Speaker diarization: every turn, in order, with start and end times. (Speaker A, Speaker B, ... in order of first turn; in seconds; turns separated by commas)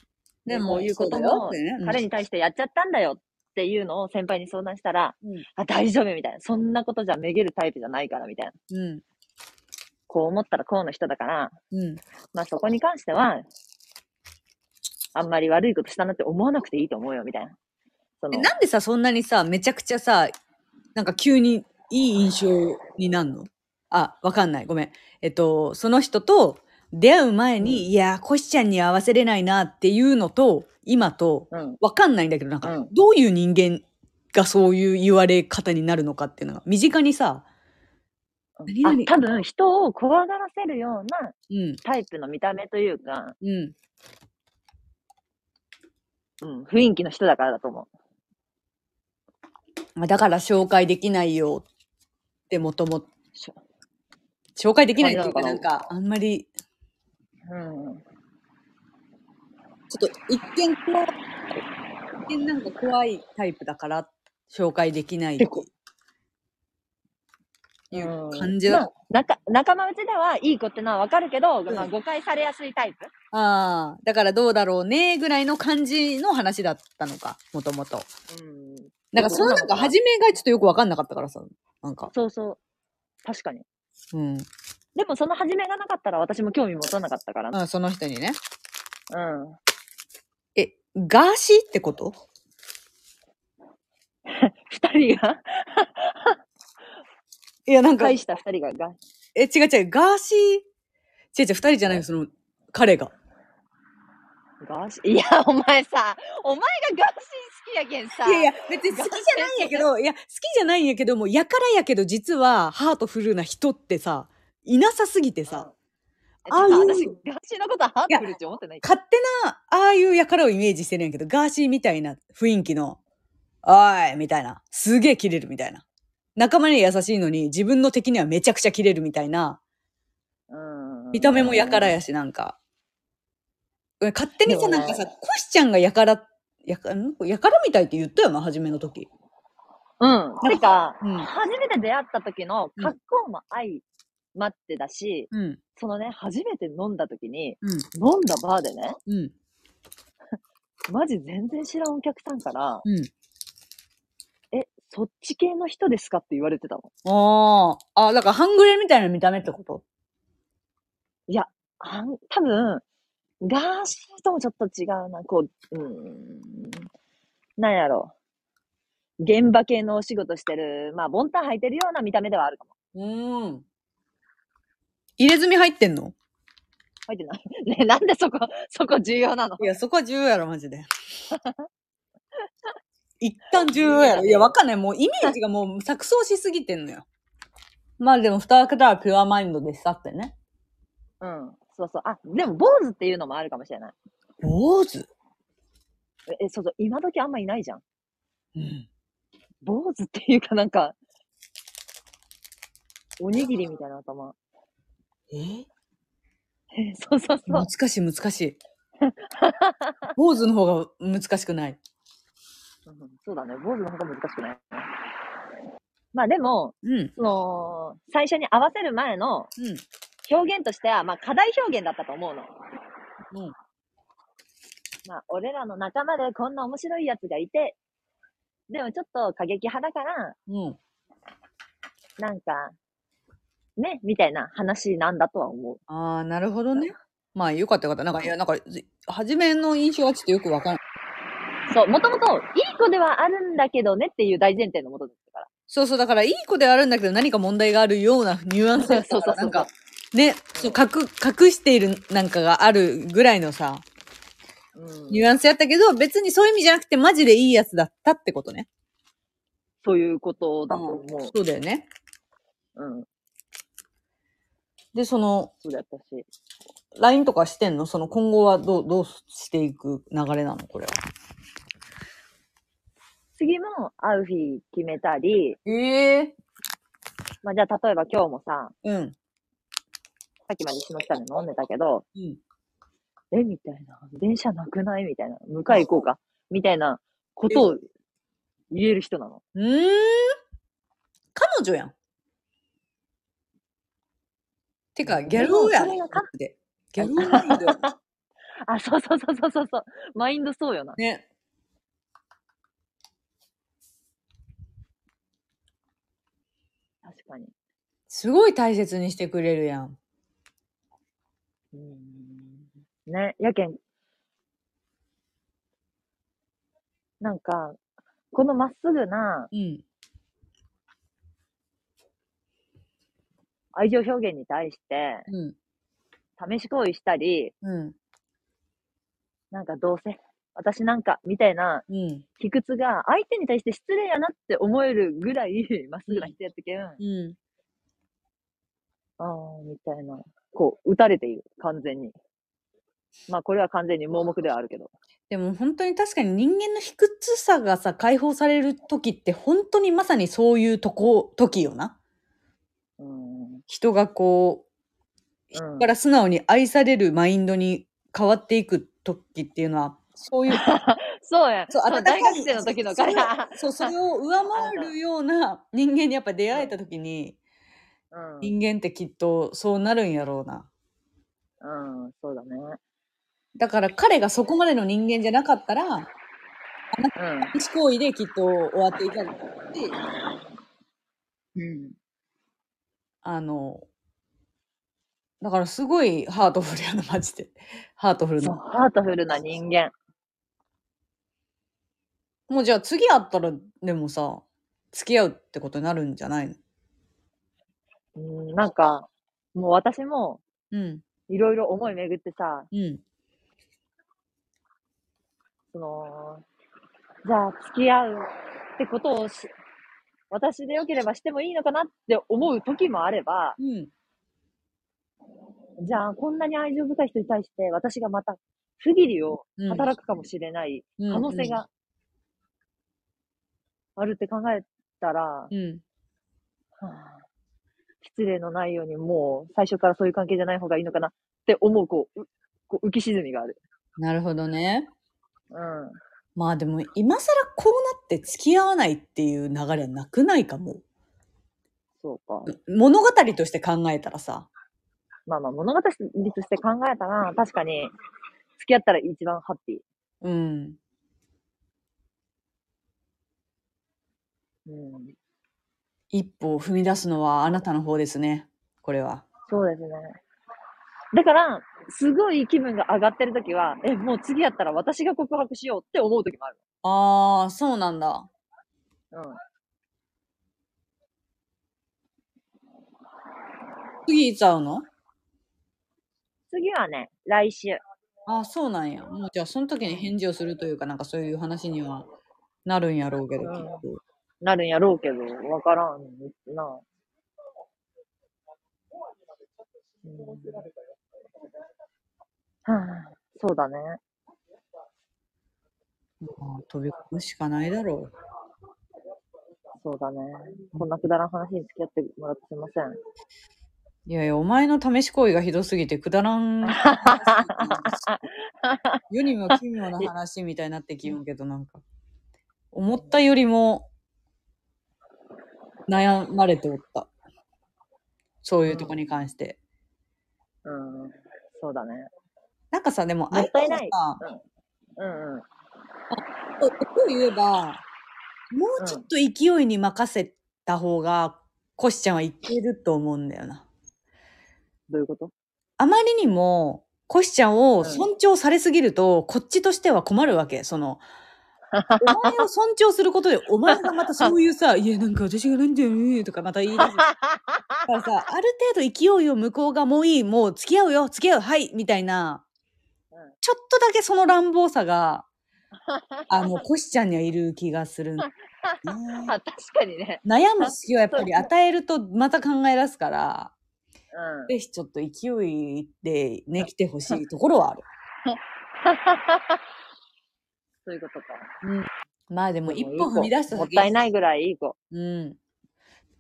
Speaker A: 0.5-2.0, Speaker B: 0.5-8.5, Speaker A: 8.7-9.0, Speaker B: 10.1-11.6, Speaker A: 11.7-12.0, Speaker B: 12.3-13.4, Speaker B: 15.1-17.6, Speaker B: 18.2-18.5, Speaker A: 18.3-20.3, Speaker A: 20.9-37.5, Speaker B: 31.5-31.8, Speaker B: 32.6-32.9, Speaker B: 38.6-43.4, Speaker A: 38.7-39.1, Speaker A: 41.5-41.8, Speaker A: 43.4-43.7, Speaker B: 46.4-47.9, Speaker A: 50.0-51.6, Speaker A: 52.5-53.1, Speaker A: 54.5-56.5, Speaker B: 55.0-55.6, Speaker B: 57.5-58.0, Speaker A: 59.9-61.1, Speaker A: 62.3-65.7, Speaker A: 67.9-68.8, Speaker B: 67.9-73.1, Speaker A: 73.3-78.1, Speaker B: 78.3-79.9, Speaker A: 79.1-82.1, Speaker B: 82.1-82.6, Speaker B: 83.2-83.6, Speaker A: 84.1-84.5, Speaker B: 85.0-87.6, Speaker A: 87.5-88.4, Speaker B: 89.1-89.6, Speaker A: 90.5-92.1, Speaker B: 94.3-96.4, Speaker A: 97.7-98.2, Speaker B: 98.0-99.0, Speaker A: 99.3-100.6, Speaker A: 101.3-103.1, Speaker B: 104.6-109.9, Speaker A: 108.2-115.7, Speaker B: 115.5-115.7, Speaker B: 116.4-118.9, Speaker A: 116.5-117.1, Speaker A: 118.8-123.0, Speaker A: 123.6-125.8, Speaker A: 126.3-129.6, Speaker B: 130.5-131.9, Speaker A: 131.1-132.6, Speaker A: 134.0-139.1, Speaker B: 134.4-135.0, Speaker B: 140.0-143.8, Speaker A: 140.4-141.3, Speaker B: 144.3-149.0, Speaker A: 145.3-145.6, Speaker A: 149.1-149.3, Speaker B: 150.9-152.8, Speaker B: 154.5-156.9, Speaker A: 157.0-159.8, Speaker B: 161.3-162.8, Speaker B: 163.4-166.9, Speaker B: 167.6-168.1, Speaker B: 169.2-172.7, Speaker A: 172.9-173.6, Speaker A: 175.2-176.1, Speaker B: 177.1-179.7, Speaker A: 179.6-180.9, Speaker A: 183.2-187.0, Speaker B: 183.5-184.5, Speaker A: 188.0-190.3, Speaker B: 191.2-193.9, Speaker A: 194.4-195.1, Speaker B: 196.3-197.8, Speaker A: 198.6-198.8, Speaker B: 199.6-200.9, Speaker B: 203.2-204.3, Speaker A: 205.3-205.7, Speaker B: 206.7-207.7, Speaker A: 207.5-208.6, Speaker B: 209.0-210.0, Speaker A: 210.2-211.8, Speaker B: 212.8-214.9, Speaker B: 216.1-219.5, Speaker A: 216.8-217.1, Speaker B: 220.2-222.5, Speaker B: 225.1-227.8, Speaker B: 228.7-230.3, Speaker A: 230.5-230.8, Speaker B: 232.2-232.7, Speaker B: 233.8-235.8, Speaker A: 235.9-240.8, Speaker B: 241.7-245.5, Speaker A: 245.7-253.8, Speaker B: 248.8-249.7, Speaker B: 254.8-255.3, Speaker A: 255.1-258.7, Speaker B: 259.8-261.3, Speaker A: 260.7-261.9, Speaker B: 262.8-263.1, Speaker A: 264.9-265.5, Speaker B: 265.6-266.3, Speaker A: 266.9-271.0, Speaker B: 273.4-275.6, Speaker A: 275.6-276.3, Speaker B: 277.4-278.7, Speaker A: 278.8-279.1, Speaker B: 280.5-282.0, Speaker B: 283.3-287.8, Speaker A: 285.7-285.9, Speaker B: 288.7-289.4, Speaker A: 289.6-290.4, Speaker A: 291.3-291.9, Speaker A: 294.9-297.8, Speaker B: 295.3-296.3, Speaker B: 297.0-297.9, Speaker B: 298.7-301.0, Speaker A: 301.0-301.2, Speaker B: 307.0-307.5, Speaker A: 308.1-309.9, Speaker B: 311.7-313.8, Speaker B: 317.2-317.8, Speaker B: 318.3-319.5, Speaker A: 319.5-319.8, Speaker B: 323.7-325.3, Speaker A: 325.3-325.5, Speaker B: 326.4-327.5, Speaker A: 327.6-327.9, Speaker B: 329.5-331.9, Speaker A: 331.9-332.2, Speaker B: 332.4-337.0, Speaker A: 337.0-337.4, Speaker B: 339.2-342.1, Speaker B: 343.3-344.9, Speaker A: 345.3-351.9, Speaker B: 353.0-353.6, Speaker A: 353.7-354.6, Speaker B: 355.5-355.9, Speaker A: 355.8-360.7, Speaker B: 360.5-363.9, Speaker A: 361.7-367.4, Speaker B: 364.5-364.9, Speaker B: 368.1-368.5, Speaker A: 368.4-370.7, Speaker B: 371.6-372.8, Speaker A: 373.6-376.1, Speaker A: 376.9-379.9, Speaker B: 377.1-377.5, Speaker B: 381.6-381.9, Speaker A: 383.2-383.8, Speaker A: 385.4-388.5, Speaker B: 388.4-389.9, Speaker A: 392.5-396.6, Speaker B: 398.1-400.4, Speaker A: 400.7-401.0, Speaker B: 401.3-402.7, Speaker A: 402.7-403.0, Speaker B: 405.7-406.4, Speaker B: 407.2-409.5, Speaker B: 410.3-413.6, Speaker A: 413.6-413.9, Speaker B: 415.8-421.7, Speaker A: 419.6-419.9, Speaker A: 421.0-421.6, Speaker B: 424.0-425.5, Speaker A: 425.5-425.8, Speaker B: 426.8-427.2, Speaker B: 428.0-433.6, Speaker A: 434.0-434.9, Speaker B: 435.5-436.0, Speaker A: 436.4-440.8, Speaker B: 442.0-442.5, Speaker A: 442.5-444.5, Speaker B: 445.3-447.9, Speaker B: 448.6-449.8, Speaker A: 450.2-450.8, Speaker B: 454.7-455.1, Speaker A: 456.1-459.2, Speaker B: 459.5-460.2, Speaker B: 461.1-466.6, Speaker A: 466.8-468.3, Speaker B: 469.1-469.4, Speaker A: 474.1-474.9, Speaker B: 476.5-477.8, Speaker A: 478.3-482.1, Speaker A: 482.6-484.0, Speaker B: 483.4-483.8, Speaker B: 484.4-486.8, Speaker B: 490.0-490.7, Speaker B: 492.6-494.0, Speaker A: 496.2-498.1, Speaker B: 499.8-503.0, Speaker A: 504.1-508.0, Speaker B: 506.6-510.1, Speaker A: 509.1-511.8, Speaker A: 512.7-513.9, Speaker B: 512.9-513.2, Speaker A: 515.9-517.1, Speaker A: 518.4-519.6, Speaker B: 518.6-519.0, Speaker B: 520.6-522.1, Speaker A: 522.7-524.2, Speaker B: 523.3-524.4, Speaker B: 525.0-525.4, Speaker A: 526.1-527.8, Speaker A: 528.5-533.6, Speaker B: 528.8-529.0, Speaker B: 534.9-535.3, Speaker A: 535.8-541.0, Speaker B: 537.8-538.1, Speaker B: 541.7-542.5, Speaker A: 542.0-547.1, Speaker B: 543.7-544.3, Speaker B: 546.8-547.8, Speaker A: 547.9-552.4, Speaker A: 553.4-555.2, Speaker B: 555.9-556.6, Speaker A: 556.3-558.3, Speaker B: 558.2-561.5, Speaker A: 558.9-559.3, Speaker A: 560.2-563.5, Speaker B: 564.1-564.5, Speaker A: 564.5-567.8, Speaker B: 568.3-569.6, Speaker B: 570.8-571.5, Speaker A: 571.6-574.0, Speaker B: 572.6-574.8, Speaker A: 574.9-575.4